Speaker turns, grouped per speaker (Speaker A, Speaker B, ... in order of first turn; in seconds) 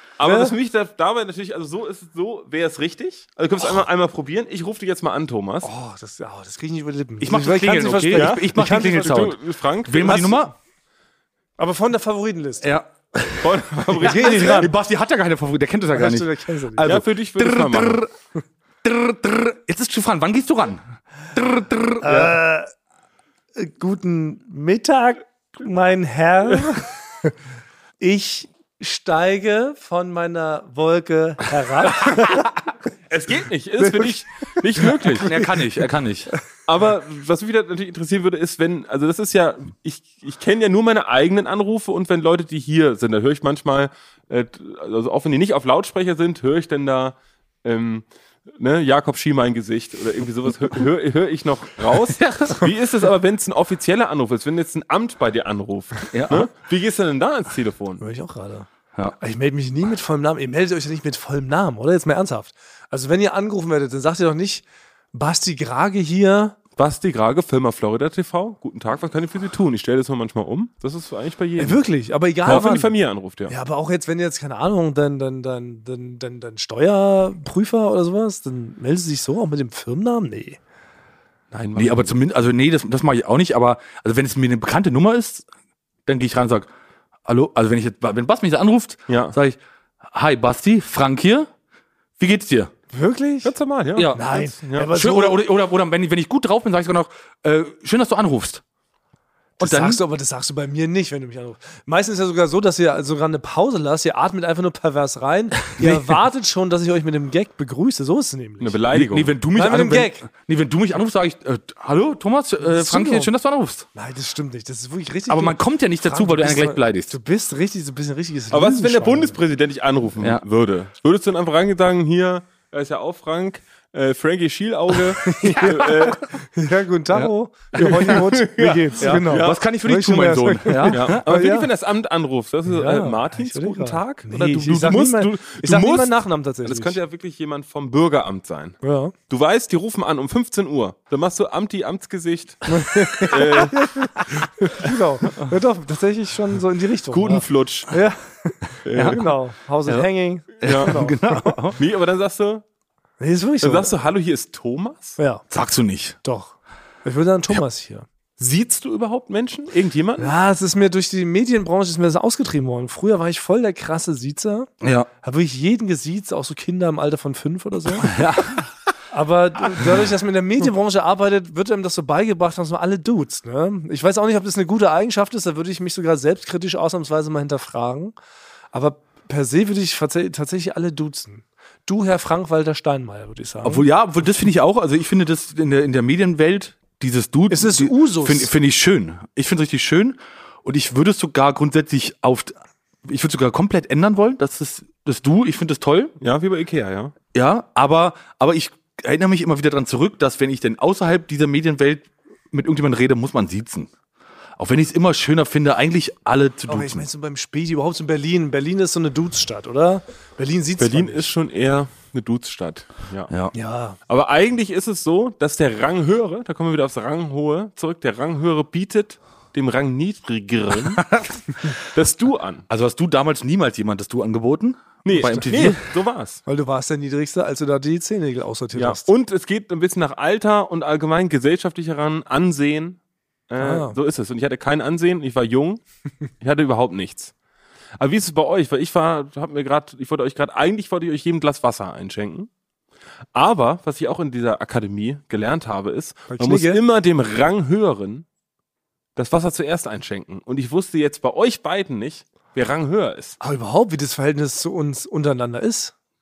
Speaker A: 0.2-5.7, 8.1-10.4, 13.4-14.7, 16.8-18.1, 33.1-35.4, 36.7-48.0, 48.6-58.0, 66.8-71.8, 72.4-73.5, 81.5-82.1, 89.1-89.3, 93.4-94.9, 108.6-109.3, 118.5-126.3, 127.7-129.6, 130.8-144.1, 147.1-147.9, 148.8-149.3, 150.6-151.0, 151.8-152.6, 153.6-155.2, 158.4-160.3, 196.2-197.1, 210.8-213.3, 214.1-221.2, 221.7-222.7, 225.0-226.4, 228.8-235.8, 236.4-237.3, 238.0-242.5, 243.3-248.2, 249.2-253.4
Speaker B: 0.2-0.5, 5.6-9.2, 10.0-10.4, 11.6-12.7, 13.9-14.7, 15.9-16.9, 22.0-22.7, 23.6-27.3, 28.0-32.6, 58.0-66.5, 71.6-72.9, 73.5-80.6, 92.9-93.5, 94.1-95.4, 99.6-108.8, 109.5-110.3, 112.6-113.3, 113.9-119.4, 125.2-131.7, 132.7-137.0, 138.8-139.1, 142.7-151.2, 153.2-153.9, 155.2-155.4, 156.2-158.1, 160.2-164.7, 165.2-168.2, 169.1-178.1, 178.7-183.9, 187.5-188.5, 206.7-211.3, 213.5-214.0, 226.4-229.1, 233.6-233.9, 246.3-246.8, 253.4-255.9
Speaker C: 7.2-10.5, 12.6-18.1, 18.8-20.8, 21.3-22.4, 35.2-36.3, 52.2-52.6, 56.1-56.5, 81.8-85.5, 86.0-86.7, 87.2-91.5, 92.2-92.7, 93.9-94.2, 94.9-98.6, 99.6-100.0, 105.8-106.1, 108.9-113.9, 115.3-117.2, 127.1-128.2, 129.0-131.2, 148.9-149.2, 150.6-151.8, 155.5-156.2, 164.8-165.1, 168.0-168.7, 183.6-196.1, 197.3-203.9, 204.6-207.0, 221.1-221.7, 222.7-225.8